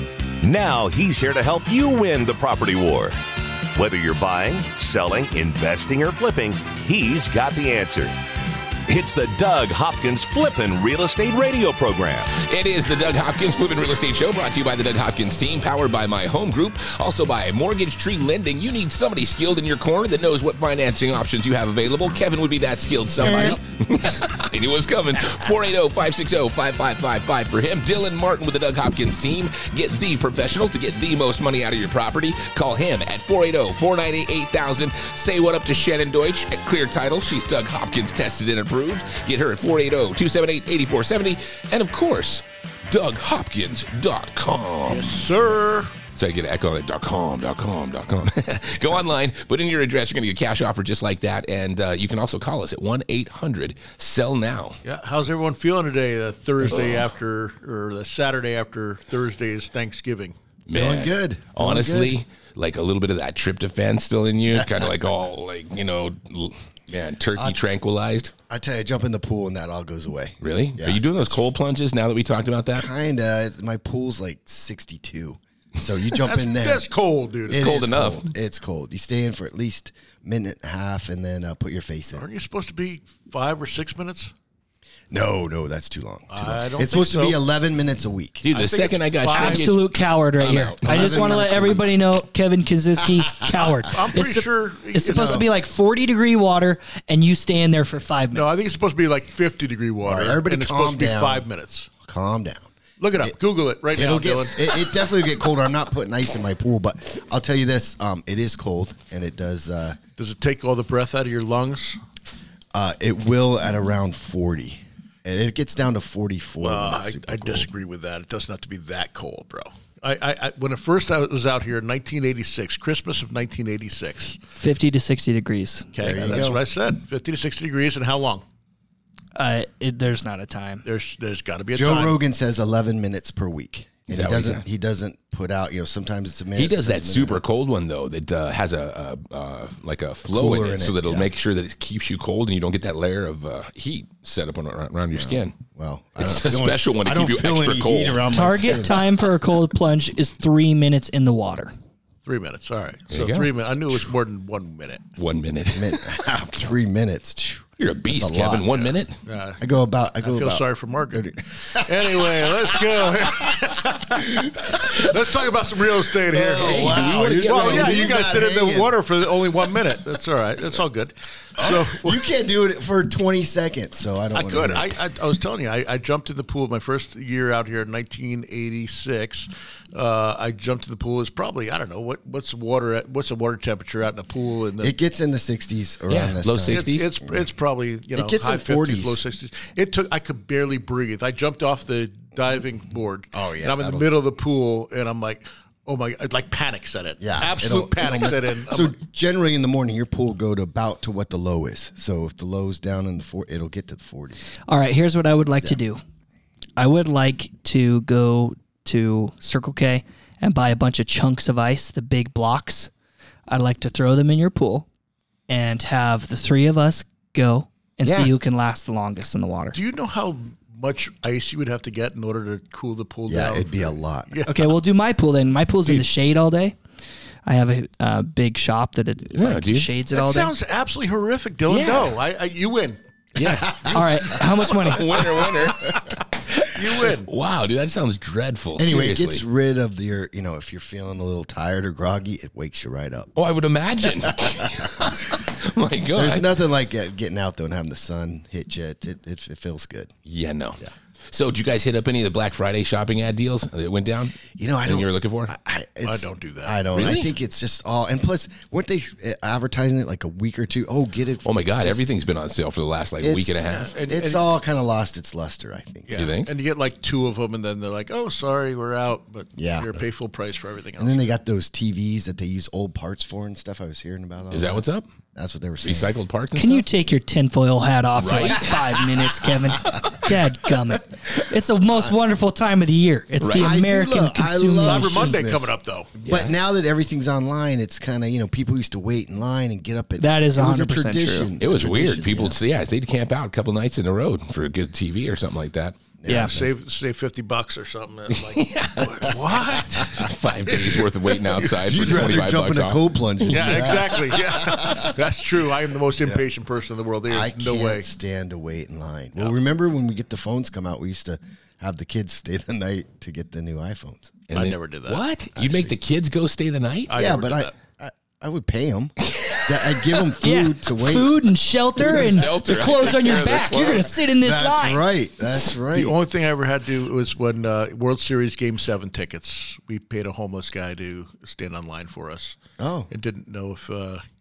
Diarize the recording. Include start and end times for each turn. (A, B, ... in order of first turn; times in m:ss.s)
0:00.4-0:03.2 A
0:03.7-0:08.2 A
0:08.9-0:12.3 A
0:12.3-0:45.2 B
0:44.8-0:45.9 C
0:46.1-0:54.8 B
0:54.8-1:00.4 C
1:00.7-1:08.3 B
1:00.7-1:02.2 D
1:04.5-1:04.8 D
1:08.5-1:11.4 D
1:10.4-1:12.9 B
1:12.7-1:16.9 D
1:16.2-1:17.6 C
1:17.4-1:22.2 D
1:17.5-1:18.3 B
1:22.2-1:24.3 C
1:25.1-1:28.4 D
1:26.3-1:27.4 C
1:28.4-1:31.2 B
1:28.5-1:29.7 C
1:29.3-1:38.6 E
1:30.8-1:31.9 D
1:33.2-1:33.7 D
1:33.8-1:35.4 C
1:35.0-1:35.5 D
1:38.3-1:41.9 C
1:40.0-1:41.4 D
1:42.0-1:43.4 D
1:43.0-1:44.6 C
1:43.9-1:50.0 D
1:50.2-1:52.0 C
1:52.7-1:57.7 D
1:56.6-2:04.4 C
2:04.5-2:06.4 E
2:05.9-2:08.4 C
2:06.0-2:06.6 D
2:09.3-2:10.8 E
2:10.8-2:12.2 C
2:11.7-2:17.4 D
2:14.1-2:14.6 B
2:16.6-2:25.6 B
2:20.2-2:21.3 D
2:25.1-2:29.1 D
2:26.2-2:28.3 B
2:28.3-2:31.7 E
2:32.2-2:35.0 C
2:33.1-2:33.6 B
2:35.2-2:36.0 B
2:35.7-2:39.0 D
2:37.8-2:39.2 B
2:39.2-2:39.6 C
2:39.6-2:42.6 D
2:40.2-2:52.2 C
2:46.3-2:49.0 D
2:46.4-2:48.3 B
2:51.6-2:55.0 D
2:54.3-3:04.9 C
3:04.8-3:07.4 D
3:06.1-3:07.2 B
3:06.7-3:19.0 C
3:08.1-3:09.2 D
3:13.3-3:14.1 D
3:17.2-3:24.5 D
3:24.7-3:26.0 E
3:26.8-3:32.9 E
3:33.5-3:34.9 E
3:35.5-3:39.8 E
3:38.0-3:38.3 D
3:39.7-3:44.7 C
3:43.3-3:44.4 D
3:44.4-3:46.8 E
3:47.4-3:50.5 E
3:49.3-3:49.9 B
3:50.1-3:53.0 C
3:53.3-3:54.4 D
3:53.4-3:53.7 B
3:53.9-3:55.2 E
3:54.7-3:59.4 B
3:56.7-3:57.3 C
3:58.8-4:03.3 D
4:03.4-4:06.5 B
4:04.2-4:05.1 D
4:06.1-4:10.1 D
4:10.2-4:15.5 B
4:14.6-4:22.1 D
4:16.0-4:16.9 C
4:16.9-4:17.3 B
4:21.4-4:24.0 B
4:23.2-4:26.2 D
4:23.6-4:24.5 C
4:26.1-4:31.3 C
4:26.1-4:26.5 B
4:29.6-4:30.0 D
4:31.0-4:34.8 D
4:34.5-4:35.1 B
4:35.3-4:36.2 D
4:35.8-4:36.8 B
4:36.5-4:45.3 E
4:38.2-4:39.2 B
4:39.8-4:40.2 B
4:43.4-4:43.7 B
4:43.5-4:45.7 D
4:44.8-4:46.1 C
4:46.2-4:46.5 B
4:46.2-4:52.6 D
4:50.2-4:51.5 E
4:51.6-4:56.0 B
4:56.2-4:56.7 D
4:56.3-4:56.6 E
4:56.4-5:02.1 C
4:58.3-5:03.8 B
5:01.7-5:05.1 D
5:03.5-5:08.1 C
5:07.3-5:14.4 D
5:14.5-5:17.2 B
5:14.5-5:15.2 C
5:15.6-5:15.9 D
5:17.1-5:17.7 C
5:17.1-5:22.4 D
5:19.2-5:20.3 B
5:20.4-5:25.1 E
5:22.0-5:24.1 B
5:24.4-5:26.2 D
5:25.9-5:32.6 C
5:32.8-5:33.1 D
5:33.1-5:34.2 C